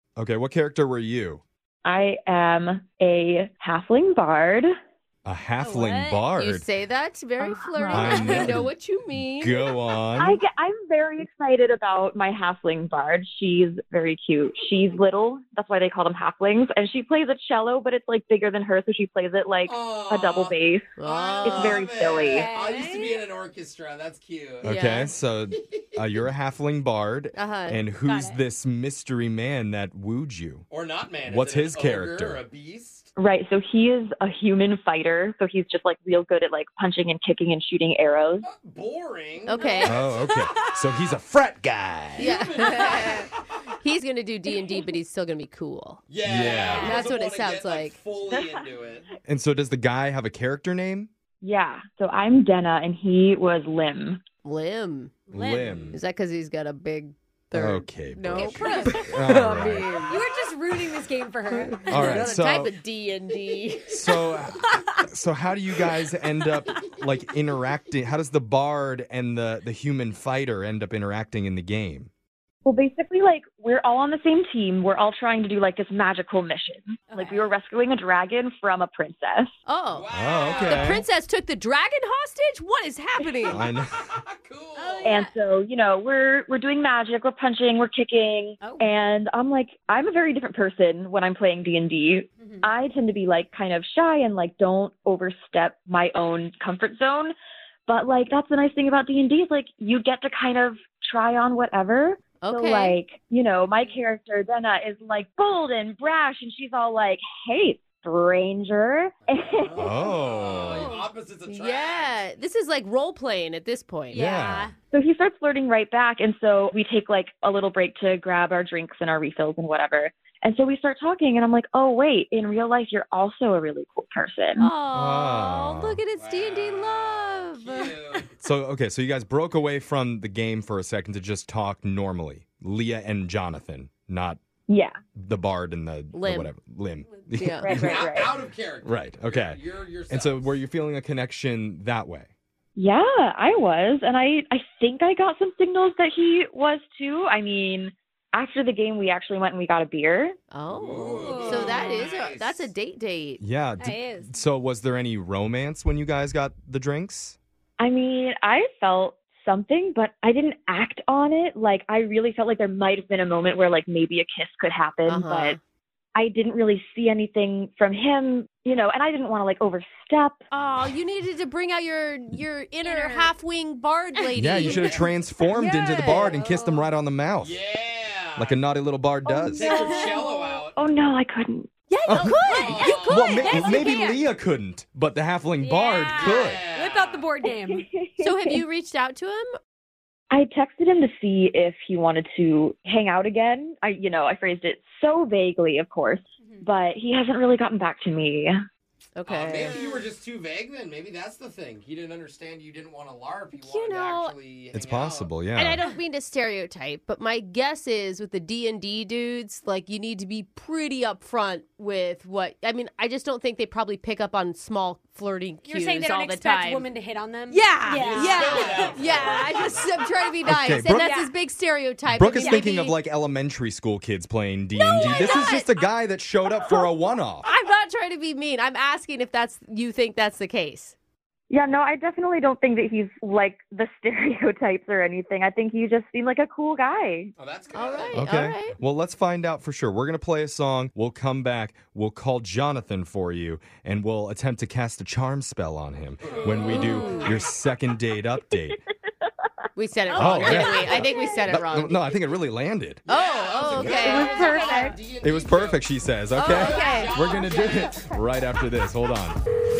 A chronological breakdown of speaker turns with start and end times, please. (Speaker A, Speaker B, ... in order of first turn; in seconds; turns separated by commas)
Speaker A: 0.1-1.4, Speaker B: 1.8-4.7, Speaker A: 5.2-6.6, Speaker C: 5.6-6.3, Speaker D: 6.4-9.6, Speaker B: 7.4-8.4, Speaker C: 7.9-8.3, Speaker A: 7.9-10.4, Speaker B: 10.2-20.9, Speaker E: 19.6-24.7, Speaker D: 21.0-21.8, Speaker B: 21.4-22.5, Speaker C: 22.2-23.2, Speaker A: 24.6-30.7, Speaker D: 24.6-25.1, Speaker D: 27.4-27.8, Speaker C: 28.0-28.4, Speaker E: 30.7-33.1, Speaker A: 31.3-32.4, Speaker B: 33.2-38.5, Speaker E: 38.4-39.9, Speaker D: 39.5-40.0, Speaker C: 39.6-40.7, Speaker A: 39.8-42.3, Speaker E: 42.1-43.3, Speaker D: 42.2-43.3, Speaker D: 43.8-46.0, Speaker E: 46.1-49.1, Speaker A: 46.2-47.0, Speaker C: 46.5-47.1, Speaker D: 46.8-48.0, Speaker A: 49.2-51.1, Speaker B: 51.4-54.2, Speaker D: 54.4-55.3, Speaker A: 55.3-56.0, Speaker C: 55.3-55.8, Speaker E: 55.6-56.0, Speaker D: 55.9-60.2, Speaker A: 57.5-60.1, Speaker C: 58.3-59.1, Speaker C: 60.1-62.4, Speaker D: 61.5-64.0, Speaker A: 61.9-62.7, Speaker A: 63.9-72.1, Speaker C: 64.7-65.0, Speaker B: 72.6-79.5, Speaker C: 77.1-77.5, Speaker D: 79.7-83.6, Speaker E: 79.9-81.0, Speaker A: 80.1-81.0, Speaker B: 83.2-83.5, Speaker A: 83.5-84.0, Speaker E: 84.1-85.2, Speaker C: 84.8-85.3, Speaker B: 85.0-97.3, Speaker C: 88.6-88.9, Speaker C: 92.4-92.7, Speaker B: 97.9-110.0, Speaker D: 102.4-103.0, Speaker E: 109.3-112.2, Speaker A: 109.8-110.9, Speaker C: 110.7-111.1, Speaker D: 111.5-114.3, Speaker C: 114.1-114.7, Speaker A: 114.1-114.7, Speaker B: 114.9-124.7, Speaker D: 124.6-128.2, Speaker A: 124.9-126.0, Speaker E: 126.1-128.3, Speaker A: 128.4-134.4, Speaker B: 134.7-134.9, Speaker A: 135.2-137.8, Speaker D: 136.1-136.5, Speaker D: 137.4-137.7, Speaker B: 137.6-138.4, Speaker E: 137.7-140.6, Speaker A: 138.8-142.3, Speaker B: 142.8-150.4, Speaker D: 150.5-153.4, Speaker E: 150.7-152.7, Speaker C: 151.1-152.1, Speaker A: 153.4-157.4, Speaker C: 153.8-154.3, Speaker B: 157.8-165.6, Speaker D: 165.1-165.6, Speaker B: 166.1-170.4, Speaker D: 170.5-176.5, Speaker C: 172.8-173.3, Speaker C: 174.2-174.9, Speaker A: 174.4-177.6, Speaker E: 174.7-175.0, Speaker C: 176.3-176.7, Speaker E: 177.4-178.6, Speaker A: 178.4-179.7, Speaker B: 179.3-180.2, Speaker E: 179.6-180.7, Speaker C: 179.6-180.6, Speaker B: 180.7-181.7, Speaker D: 181.9-183.9, Speaker A: 182.1-186.6, Speaker C: 182.2-184.2, Speaker E: 182.5-183.7, Speaker C: 185.6-187.9, Speaker E: 186.2-187.2, Speaker B: 187.5-188.6, Speaker D: 188.2-189.5, Speaker B: 190.3-198.6, Speaker D: 199.2-200.0, Speaker E: 199.2-205.3, Speaker D: 203.6-204.3, Speaker A: 204.7-205.8, Speaker D: 205.5-216.9, Speaker C: 215.6-219.7, Speaker D: 217.5-223.0, Speaker E: 217.9-220.1, Speaker A: 220.4-221.2, Speaker C: 220.8-221.3, Speaker A: 222.1-227.5, Speaker C: 222.3-222.6, Speaker D: 224.8-225.7, Speaker C: 224.9-225.6, Speaker E: 224.9-225.5, Speaker D: 227.4-230.9, Speaker B: 231.5-237.3, Speaker E: 237.4-238.2, Speaker D: 237.7-238.7, Speaker A: 238.1-248.8, Speaker E: 246.2-247.4, Speaker D: 246.6-247.4, Speaker D: 249.8-252.1, Speaker C: 250.1-251.1, Speaker A: 250.1-253.1, Speaker D: 253.1-254.6, Speaker E: 253.1-255.9, Speaker C: 254.1-254.9, Speaker A: 255.2-259.4, Speaker D: 256.4-257.4, Speaker E: 256.4-258.0